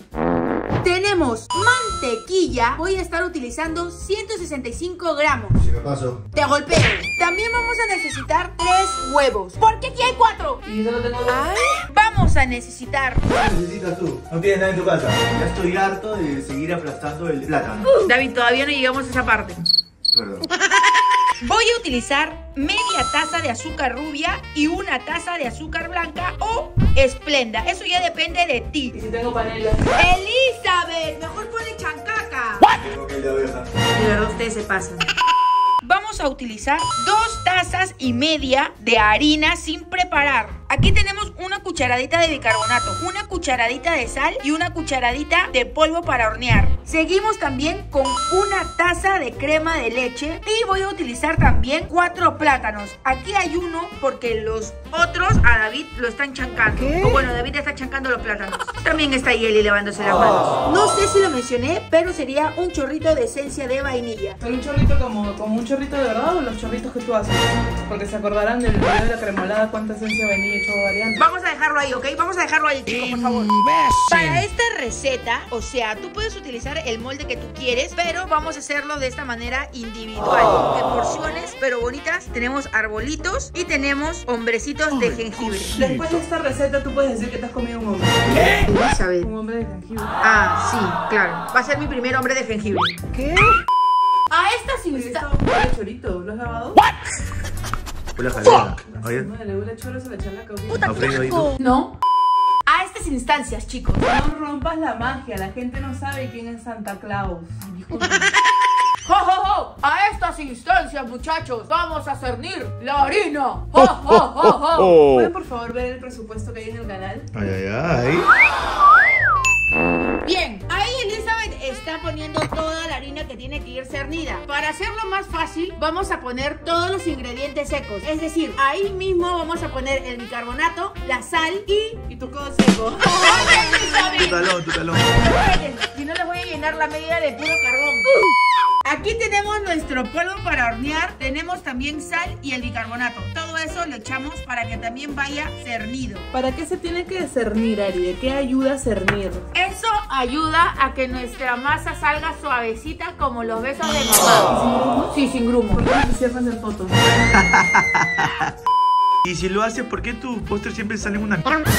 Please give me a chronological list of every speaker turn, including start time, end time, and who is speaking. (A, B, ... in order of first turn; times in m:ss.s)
0:00.8-0:05.6 A
0:05.6-0:06.2 B
0:06.3-0:10.7 A
0:10.7-0:11.4 C
0:11.3-0:13.3 A
0:13.3-0:18.0 B
0:18.0-0:19.6 A
0:20.1-0:20.5 B
0:21.4-0:29.0 A
0:28.9-0:29.8 C
0:30.0-0:32.8 A
0:32.7-0:33.7 B
0:34.0-0:35.1 A
0:35.8-1:04.4 A
1:04.4-1:11.3 C
1:11.2-1:25.8 A
1:25.8-1:28.6 C
1:28.3-1:29.3 A
1:29.2-1:30.2 C
1:30.2-1:33.4 A
1:34.3-1:35.3 A
1:34.9-1:36.8 C
1:38.2-1:39.3 B
1:38.8-1:41.0 C
1:40.8-1:41.5 B
1:41.5-1:42.0 A
1:42.7-1:44.1 A
1:44.0-1:47.6 C
1:47.6-1:48.3 A
1:49.0-1:55.1 A
1:55.0-1:57.3 C
1:57.3-1:58.3 B
2:00.2-2:12.0 A
2:12.1-2:14.2 C
2:13.0-2:14.4 A
2:14.1-2:15.4 B
2:15.1-2:18.2 A
2:18.8-2:26.3 A
2:26.3-2:29.4 C
2:29.5-2:34.6 A
2:34.5-2:35.1 C
2:35.1-2:35.8 A
2:35.7-2:37.1 C
2:37.2-2:38.5 B
2:39.2-2:41.6 B